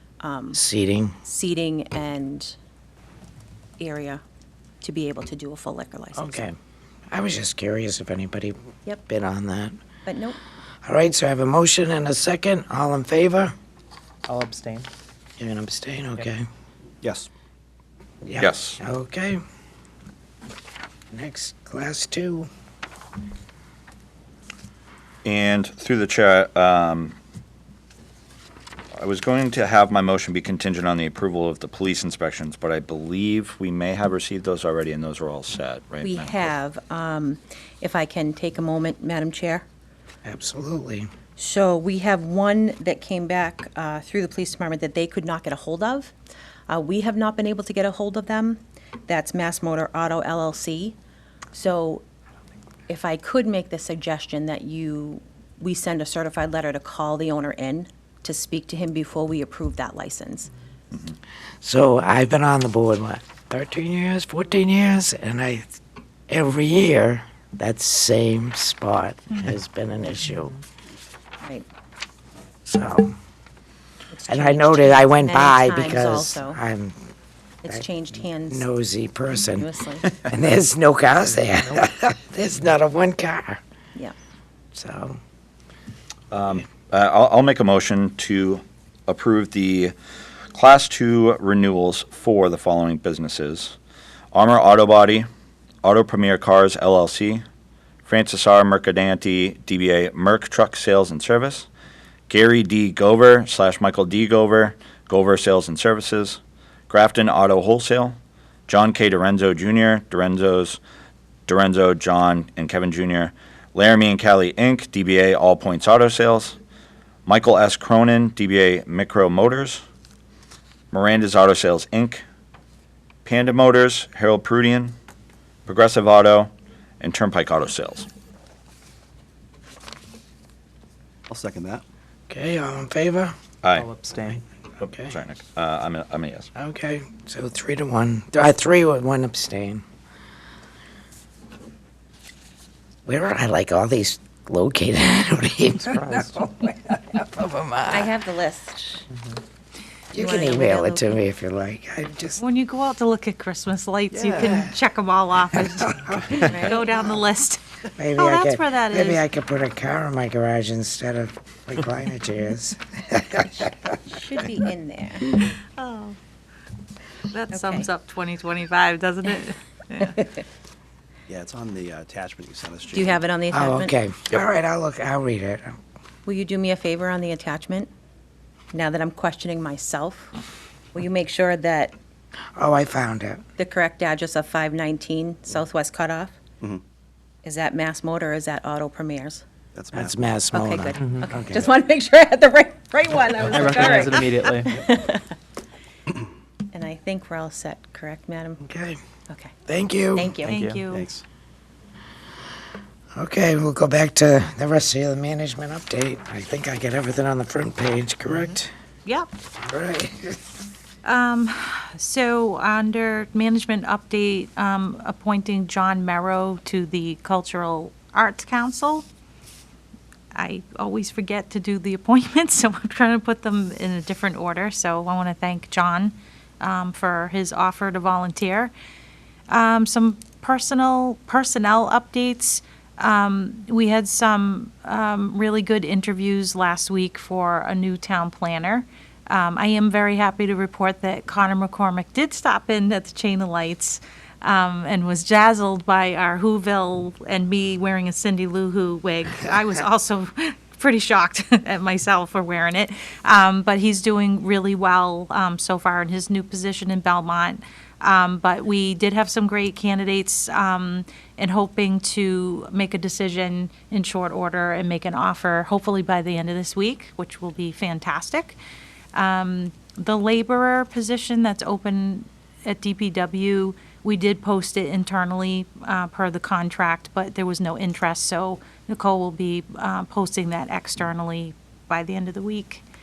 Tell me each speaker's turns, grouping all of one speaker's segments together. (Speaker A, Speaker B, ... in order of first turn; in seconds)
Speaker A: 0.2-0.6, 1.2-2.5, 3.8-4.2, 4.8-6.5, 10.1-10.4, 36.0-39.6, 41.4-46.1, 46.7-51.0, 51.5-52.0, 52.9-60.5, 74.1-76.6, 77.6-78.7, 79.6-80.1, 147.9-149.1, 150.1-151.2, 156.3-156.9, 163.7-165.4, 167.5-167.9, 172.9-173.9, 176.2-177.9, 178.7-180.3, 180.9-181.9, 183.6-186.4, 187.4-189.4, 190.5-195.3, 196.7-198.6, 199.3-199.5, 200.1-200.6
Speaker B: 0.5-1.2, 6.1-6.5, 7.1-9.8, 10.8-13.5, 15.4-16.5, 18.2-19.4, 21.1-22.5, 40.2-41.1, 61.6-65.8, 66.3-70.6, 72.7-73.1, 74.3-77.1, 78.5-79.7, 80.2-83.6, 84.7-85.2, 132.3-133.3, 134.9-135.2, 136.6-139.8, 143.1-146.4, 147.1-148.1, 150.1-152.4, 155.8-156.7, 158.0-163.7, 173.5-175.8, 182.6-183.4, 189.9-191.7, 198.6-199.0, 199.7-200.4, 203.2-208.7, 209.6-210.3
Speaker C: 14.3-14.9, 133.7-134.4, 193.4-194.8, 200.5-200.8
Speaker D: 17.0-17.3, 131.3-131.8, 154.1-154.7, 171.3-173.2, 189.8-190.2, 200.9-201.2
Speaker E: 18.4-18.8, 25.2-27.1, 28.9-36.5, 86.3-89.9, 90.5-93.8, 94.3-95.3, 95.8-97.4, 98.0-101.7, 102.3-108.2, 108.7-110.8, 111.5-116.6, 117.2-119.8, 120.9-122.2, 123.2-124.9, 125.7-128.1, 133.6-133.9, 134.8-136.5
Speaker F: 152.4-159.2, 165.5-166.2, 167.3-170.2, 200.5-201.1, 211.0-219.1, 220.3-228.7, 229.5-268.6, 269.1-282.8